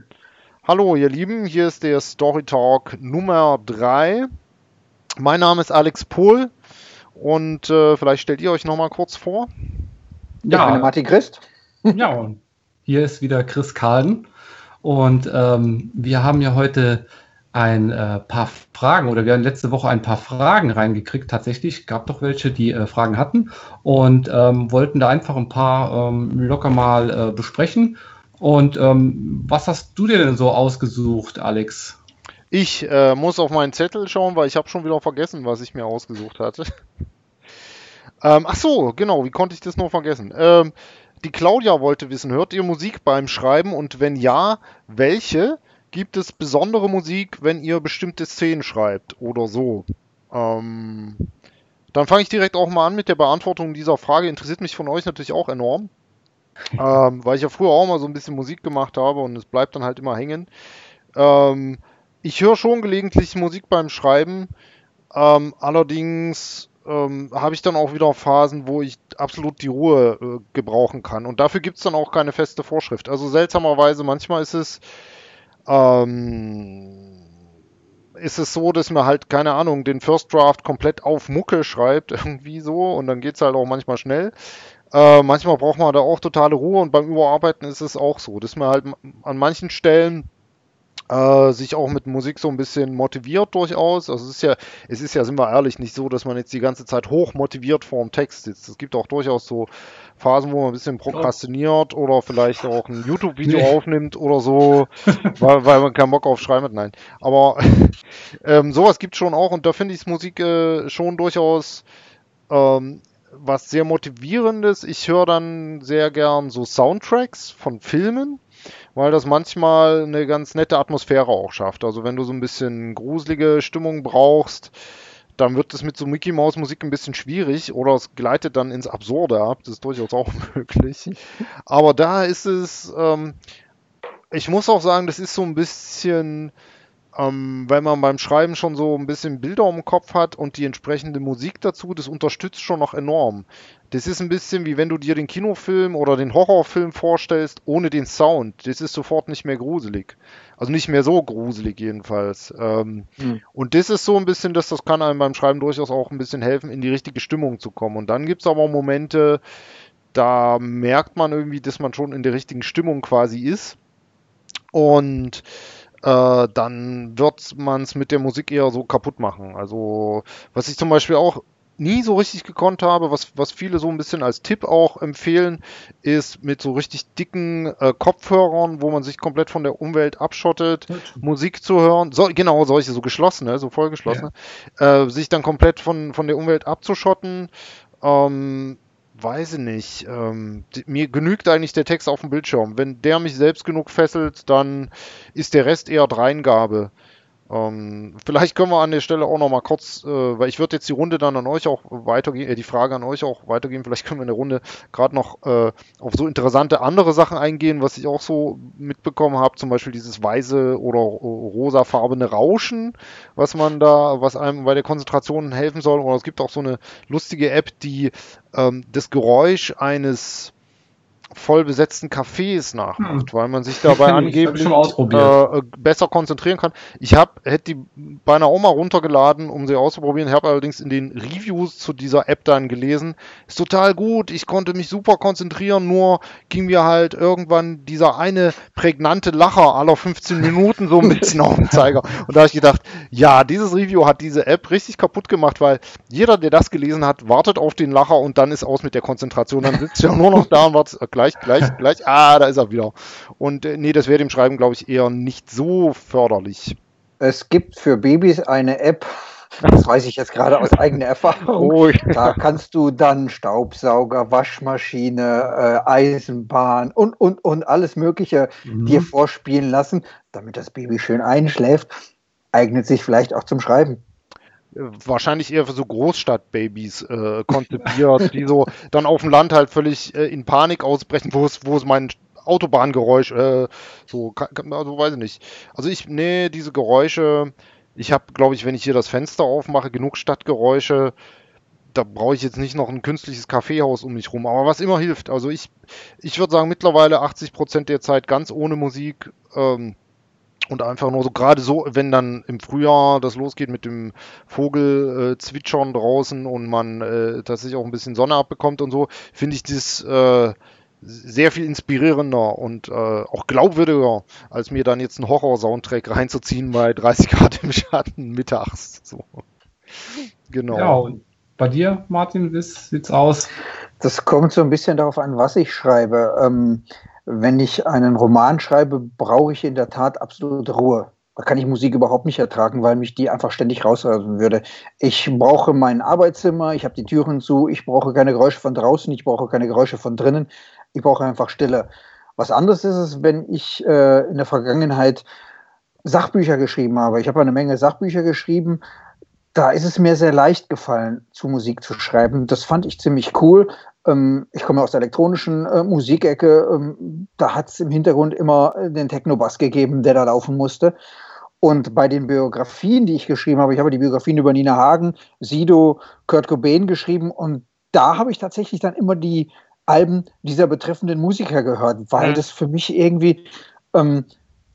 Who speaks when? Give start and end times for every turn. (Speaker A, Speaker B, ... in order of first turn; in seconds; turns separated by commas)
Speaker A: 0.7-4.3, Speaker A: 5.2-6.5, Speaker A: 7.2-9.5, Speaker B: 10.4-10.9, Speaker C: 10.5-12.0, Speaker B: 11.9-14.3, Speaker B: 14.8-32.0, Speaker A: 32.5-36.7, Speaker A: 38.2-51.3, Speaker A: 51.9-55.9, Speaker A: 56.8-60.5, Speaker A: 61.1-64.5, Speaker A: 65.1-74.8, Speaker A: 75.7-77.0, Speaker A: 78.2-84.3, Speaker A: 84.9-90.3, Speaker A: 91.1-111.8, Speaker B: 103.4-103.7, Speaker A: 112.5-118.4, Speaker A: 119.0-124.7, Speaker A: 125.4-131.2, Speaker A: 131.7-133.4, Speaker A: 134.3-136.5, Speaker A: 137.2-159.4, Speaker A: 160.1-163.8, Speaker A: 164.7-165.4, Speaker A: 166.0-187.5, Speaker B: 180.9-181.2, Speaker A: 188.0-196.9, Speaker A: 197.5-220.5, Speaker A: 221.3-256.8, Speaker B: 223.0-223.3, Speaker B: 223.8-225.3, Speaker C: 257.2-259.1, Speaker C: 259.7-271.9, Speaker A: 261.6-262.4, Speaker B: 268.7-269.1, Speaker C: 272.5-274.0, Speaker A: 274.7-291.1, Speaker A: 291.9-300.0, Speaker A: 300.7-319.4, Speaker A: 320.1-321.0, Speaker B: 320.7-323.5, Speaker C: 324.0-345.2, Speaker C: 346.1-348.8, Speaker C: 349.5-361.0, Speaker C: 361.6-374.3, Speaker A: 372.2-372.4